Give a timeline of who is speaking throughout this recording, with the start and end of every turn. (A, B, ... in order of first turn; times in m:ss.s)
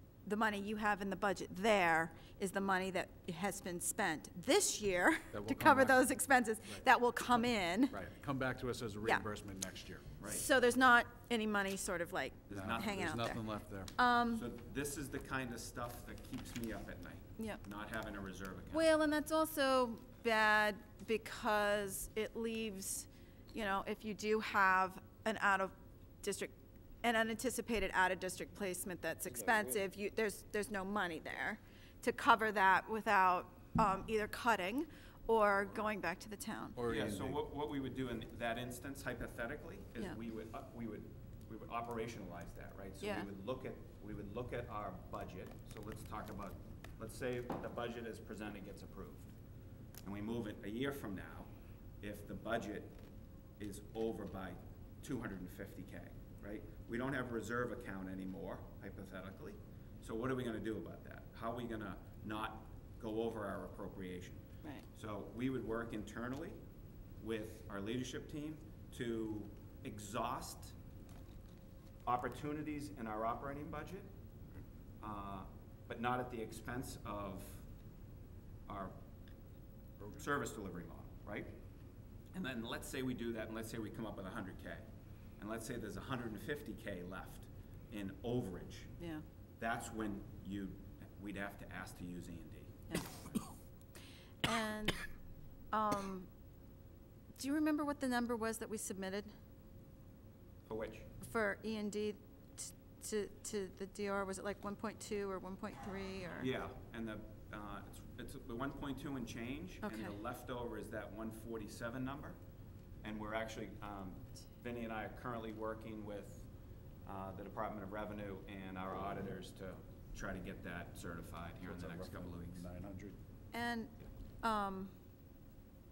0:00.2-0:08.0 A
0:05.3-0:06.0 B
0:07.9-0:10.1 B
0:10.2-0:10.4 C
0:10.3-0:13.4 A
0:12.5-0:13.2 C
0:12.5-0:13.9 B
0:14.0-0:14.4 A
0:14.3-0:18.9 C
0:18.7-0:36.8 A
0:36.8-0:37.4 B
0:36.8-0:49.3 C
0:43.0-0:43.3 A
0:50.0-0:51.5 C
0:52.0-0:53.0 C
0:53.6-1:06.6 C
1:07.2-1:10.8 C
1:12.0-1:14.1 C
1:15.0-1:17.7 C
1:18.7-1:19.0 C
1:20.0-1:21.6 C
1:22.3-1:24.8 C
1:25.4-1:28.9 C
1:29.6-1:32.8 C
1:32.9-1:33.4 A
1:34.4-1:35.0 A
1:35.7-1:36.3 A
1:37.4-1:39.3 A
1:40.7-1:41.1 C
1:41.2-1:46.5 A
1:46.4-1:52.4 C
1:49.8-1:50.1 A
1:53.0-1:56.5 C
1:57.1-2:02.7 C
2:01.7-2:03.2 B
2:03.5-2:04.9 A